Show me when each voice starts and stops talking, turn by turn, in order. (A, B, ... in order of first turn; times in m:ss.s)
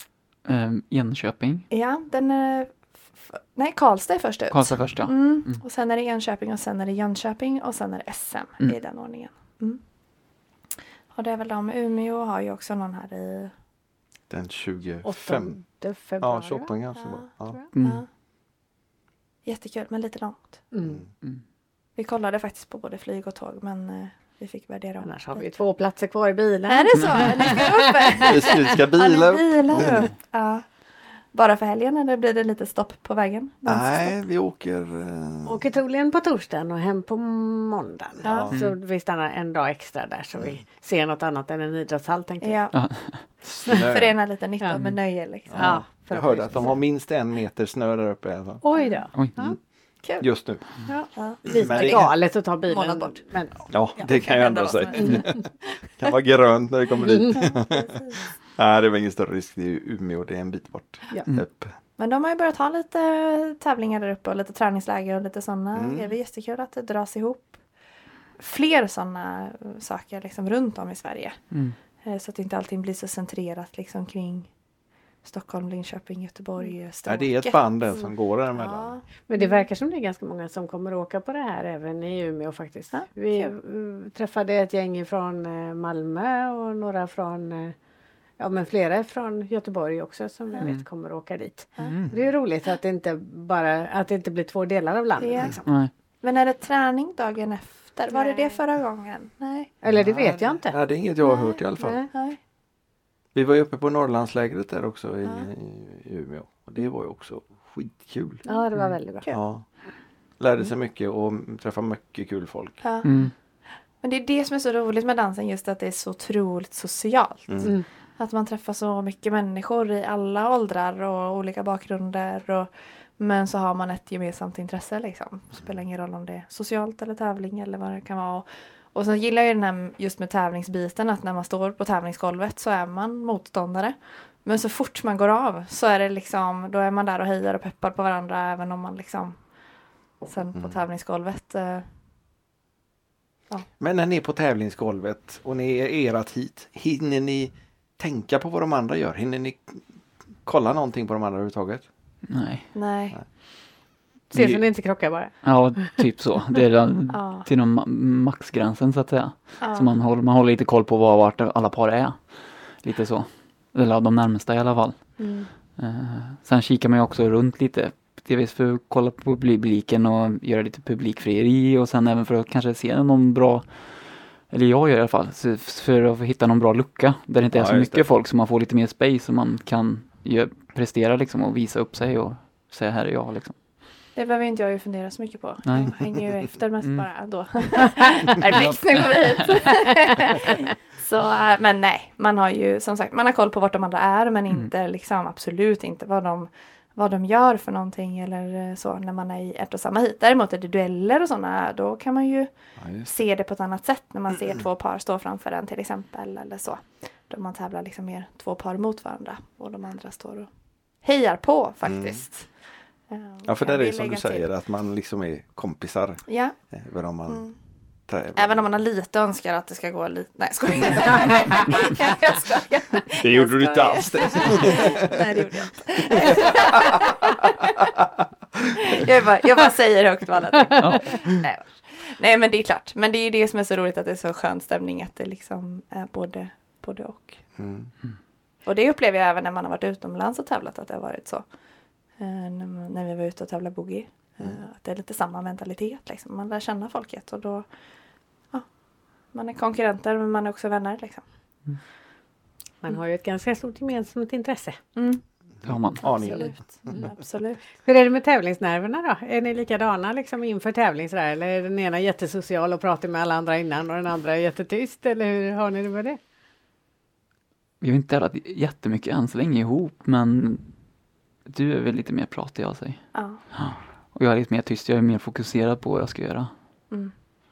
0:00.5-0:01.7 A
0:01.7-0:09.8 B
0:04.5-0:05.6 A
0:11.1-0:13.5 B
0:14.3-0:15.6 C
0:15.0-0:16.7 D
0:16.2-0:17.6 C
0:17.0-0:17.2 B
0:17.8-0:18.0 A
0:17.8-0:18.1 B
0:19.4-0:20.6 B
0:20.7-0:21.0 D
0:22.0-0:25.5 B
0:25.0-0:28.1 D
0:26.7-0:30.6 B
0:28.2-0:30.1 C
0:31.3-0:34.2 B
0:33.7-0:35.6 C
0:35.4-0:42.6 D
0:38.2-0:38.5 B
0:38.2-0:38.6 C
0:42.4-0:42.8 B
0:42.7-0:43.2 A
0:43.4-0:44.2 C
0:43.7-0:46.8 B
0:45.5-0:48.6 C
0:45.6-0:45.9 D
0:48.6-0:49.6 D
0:50.2-0:50.7 C
0:50.9-0:52.1 B
0:50.9-0:53.7 D
0:51.5-0:52.1 C
0:52.7-0:53.3 B
0:53.7-0:55.4 C
0:54.0-0:55.5 B
0:55.0-0:55.2 D
0:56.0-0:57.9 C
0:57.3-0:58.3 B
0:58.6-1:01.7 C
1:02.0-1:07.6 B
1:05.8-1:06.1 C
1:08.4-1:11.4 B
1:12.0-1:14.5 B
1:15.2-1:17.7 B
1:17.1-1:18.9 C
1:18.6-1:19.6 B
1:19.3-1:27.8 D
1:22.9-1:23.5 B
1:28.4-1:35.6 D
1:31.8-1:32.1 A
1:35.2-1:35.7 B
1:35.6-1:35.9 A
1:36.2-1:39.7 B
1:38.1-1:38.6 D
1:39.8-1:40.8 D
1:39.9-1:42.0 C
1:41.2-1:42.4 B
1:41.8-1:42.1 D
1:43.3-1:48.4 C
1:48.5-1:49.3 D
1:49.3-1:49.6 C
1:50.4-1:52.8 C
1:52.8-1:53.1 B
1:53.0-1:53.3 A
1:54.0-2:19.4 B
2:20.2-2:21.9 B
2:23.8-2:29.8 C
2:30.4-2:31.9 C
2:32.3-2:32.7 A
2:32.7-2:33.2 B
2:34.3-2:35.4 D
2:34.4-2:34.6 A
2:35.4-3:03.6 A
2:37.1-2:37.5 B
2:39.6-2:39.9 B
2:45.2-2:45.5 B
2:57.5-2:58.1 C
3:04.2-3:22.5 B
3:05.6-3:06.0 A
3:08.4-3:09.8 A
3:22.8-3:23.1 C
3:23.1-3:30.5 B
3:31.0-3:32.5 B
3:31.8-3:32.2 C
3:33.1-3:34.5 B
3:33.4-3:37.4 C
3:36.3-3:36.6 B
3:37.3-3:37.6 B
3:38.1-3:38.6 C
3:38.4-3:47.9 B
3:43.2-3:45.3 C
3:46.1-3:47.1 C
3:48.7-3:57.4 B
3:50.8-3:51.2 A
3:57.6-3:57.9 C
3:58.6-4:01.4 B
4:02.2-4:07.7 B
4:09.3-4:11.2 B
4:12.8-4:14.8 D
4:15.0-4:15.2 B
4:15.6-4:16.1 A
4:16.0-4:16.5 C
4:16.0-4:17.6 B
4:17.7-4:26.2 D
4:27.8-4:30.7 A
4:31.5-4:36.5 A
4:33.1-4:33.4 B